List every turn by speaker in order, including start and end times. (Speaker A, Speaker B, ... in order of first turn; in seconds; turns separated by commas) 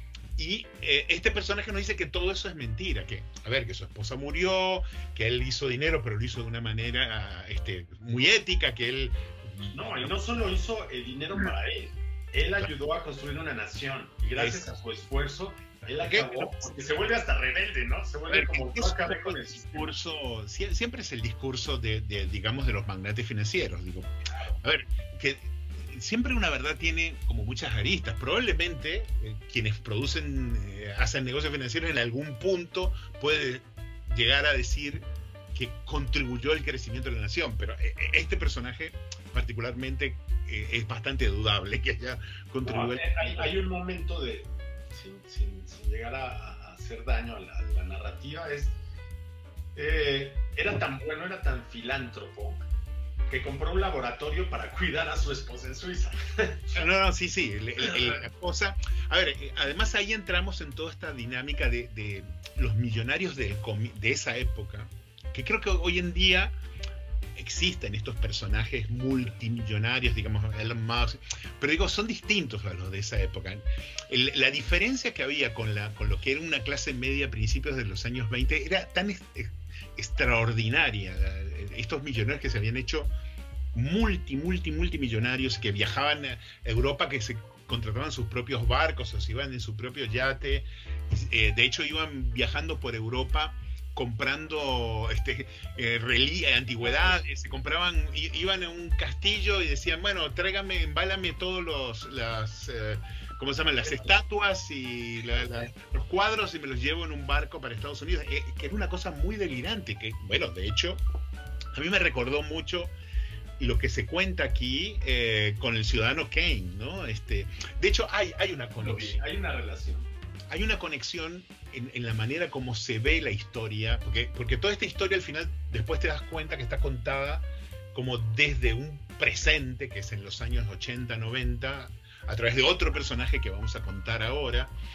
Speaker A: 0.4-10.5, Speaker B: 9.7-19.9, Speaker A: 14.4-14.7, Speaker A: 16.0-16.7, Speaker A: 18.3-43.6, Speaker B: 24.3-24.6, Speaker B: 42.6-48.8, Speaker B: 49.8-52.6, Speaker B: 53.3-56.8, Speaker A: 56.7-66.5, Speaker B: 57.8-58.2, Speaker A: 67.4-83.1, Speaker A: 83.7-111.0, Speaker B: 96.8-97.2, Speaker B: 103.8-104.1, Speaker A: 111.7-112.9, Speaker A: 113.6-119.2, Speaker B: 118.8-120.1, Speaker A: 120.5-134.7